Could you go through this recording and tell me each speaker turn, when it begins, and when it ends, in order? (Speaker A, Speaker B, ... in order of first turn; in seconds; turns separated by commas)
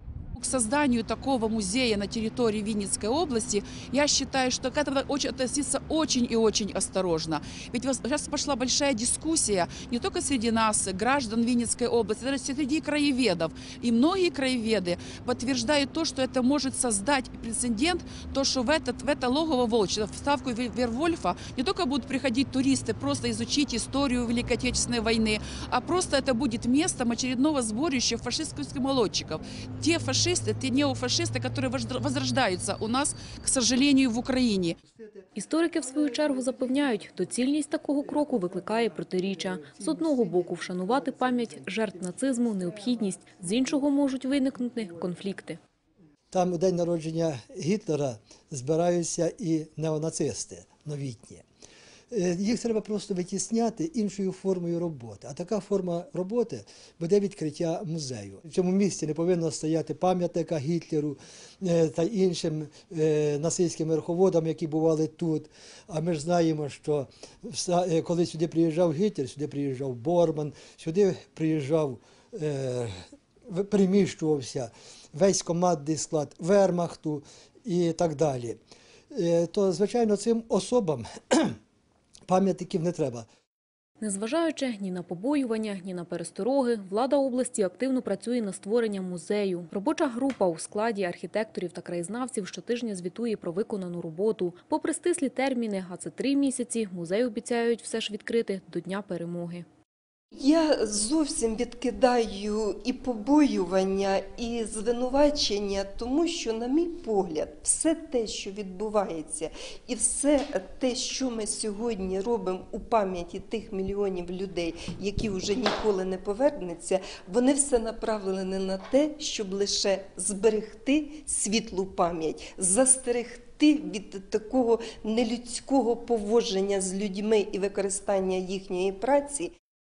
Speaker A: 0.4-34.8, Speaker B: 34.9-35.3, Speaker C: 35.3-45.6, Speaker B: 38.2-39.0, Speaker B: 39.6-40.7, Speaker B: 46.3-51.4, Speaker B: 52.1-73.0, Speaker B: 73.5-78.6, Speaker B: 79.1-81.6, Speaker B: 82.3-83.2, Speaker C: 84.0-99.7, Speaker D: 100.4-129.5